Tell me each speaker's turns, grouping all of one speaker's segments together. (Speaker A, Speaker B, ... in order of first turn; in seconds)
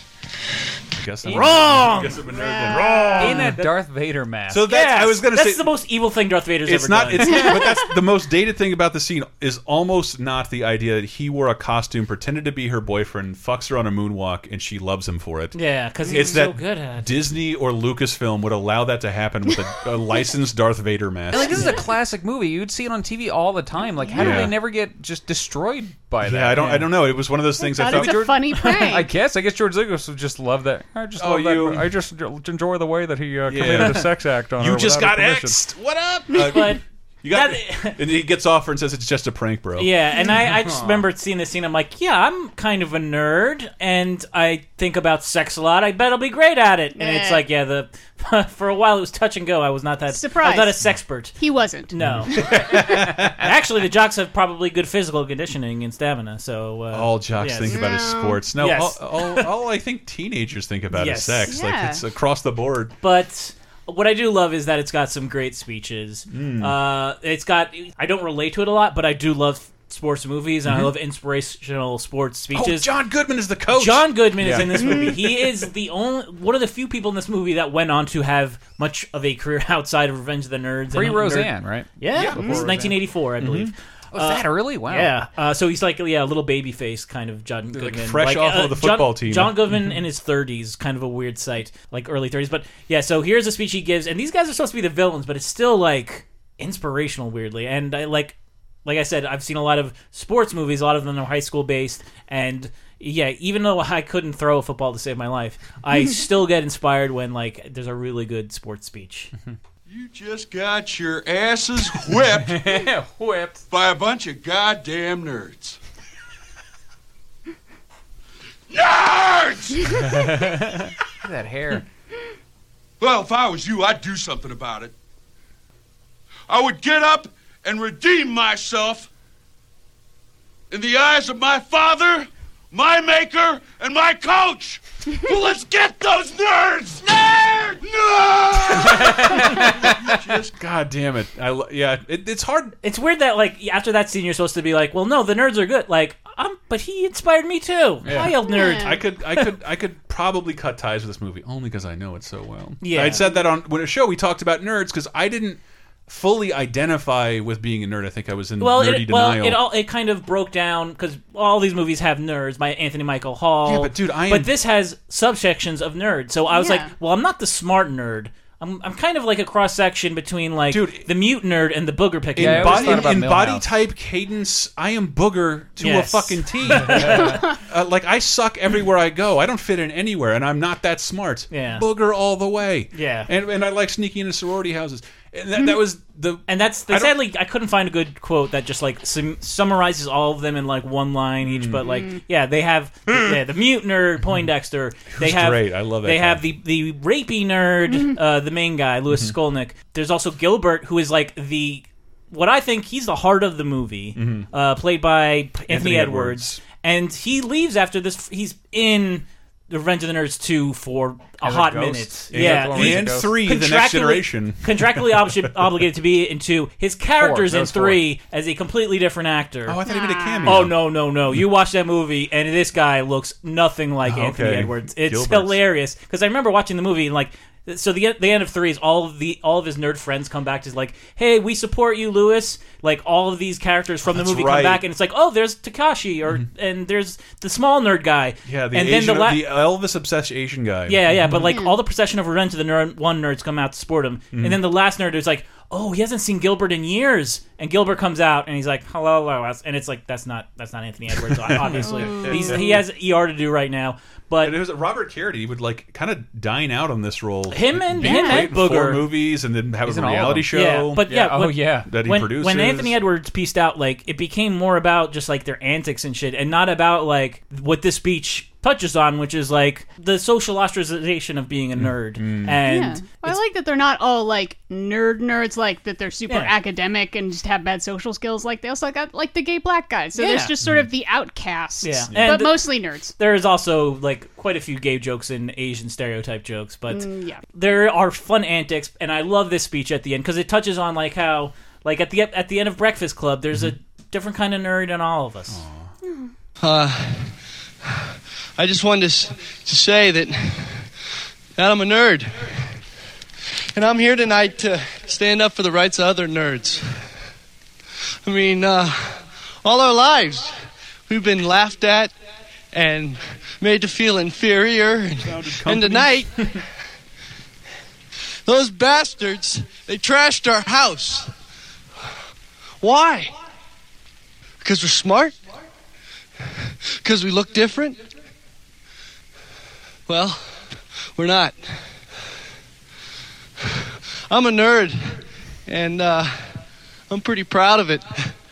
Speaker A: 1.0-3.5, 4.5-5.7, 6.7-15.6, 16.1-21.8, 24.2-24.6, 26.2-28.4, 31.2-31.9, 33.5-39.9, 52.0-53.5, 56.9-62.9, 66.3-66.7, 72.5-75.4, 82.1-82.9, 83.4-83.7, 87.7-89.5, 138.8-139.6, 140.5-142.7, 148.7-159.6, 163.7-164.5, 170.7-171.1, 172.3-187.1, 191.4-191.8, 195.1-196.4, 204.2-204.5, 205.7-206.6, 212.3-215.3, 219.7-220.8, 224.0-225.6, 234.1-234.8, 238.4-241.5, 244.3-244.6, 251.4-252.8, 254.4-261.1, 261.9-262.9, 271.8-272.6, 282.1-282.3, 295.5-295.9, 315.2-316.5
Speaker B: 1.2-2.2, 2.8-3.7, 4.7-7.6, 15.5-17.2, 36.3-38.0, 39.8-57.9, 58.6-59.5, 60.9-61.5, 63.0-72.9, 73.7-109.3, 142.8-149.0, 152.8-153.2, 158.6-173.1, 175.8-177.4, 181.5-181.8, 182.9-183.3, 186.5-219.8, 220.4-239.5, 240.9-254.6, 257.5-259.1, 260.5-273.4, 276.3-276.5, 280.1-280.5, 281.8-295.6
Speaker C: 2.3-3.4, 7.2-7.9, 16.1-16.4, 24.0-24.5, 27.6-29.1, 47.0-47.4, 50.1-50.7, 51.4-51.9, 57.6-58.4, 61.5-62.0, 148.5-149.0, 166.5-166.9, 191.8-192.2, 219.8-220.6, 241.5-241.7, 251.8-252.8, 258.0-258.5, 272.6-283.1, 286.9-287.4, 296.0-296.3
Speaker D: 3.2-4.7, 21.3-26.9, 27.8-35.6, 40.5-41.0, 74.4-74.8, 80.9-83.0, 84.1-85.1, 112.4-113.6, 120.1-121.8, 148.0-148.3, 172.4-173.7, 176.8-177.2, 211.4-213.4, 217.2-218.0, 259.8-261.9
Speaker E: 109.8-112.9, 113.7-115.8, 118.7-120.2, 123.0-124.9, 126.5-129.1, 130.7-140.5
Speaker F: 296.6-297.3, 298.6-300.9, 301.6-302.6, 303.7-307.1, 308.2-312.1, 312.7-316.3, 318.4-321.3, 322.8-323.3, 324.6-325.4, 327.0-328.0, 330.1-330.6, 331.1-331.8, 334.3-336.6, 337.1-338.3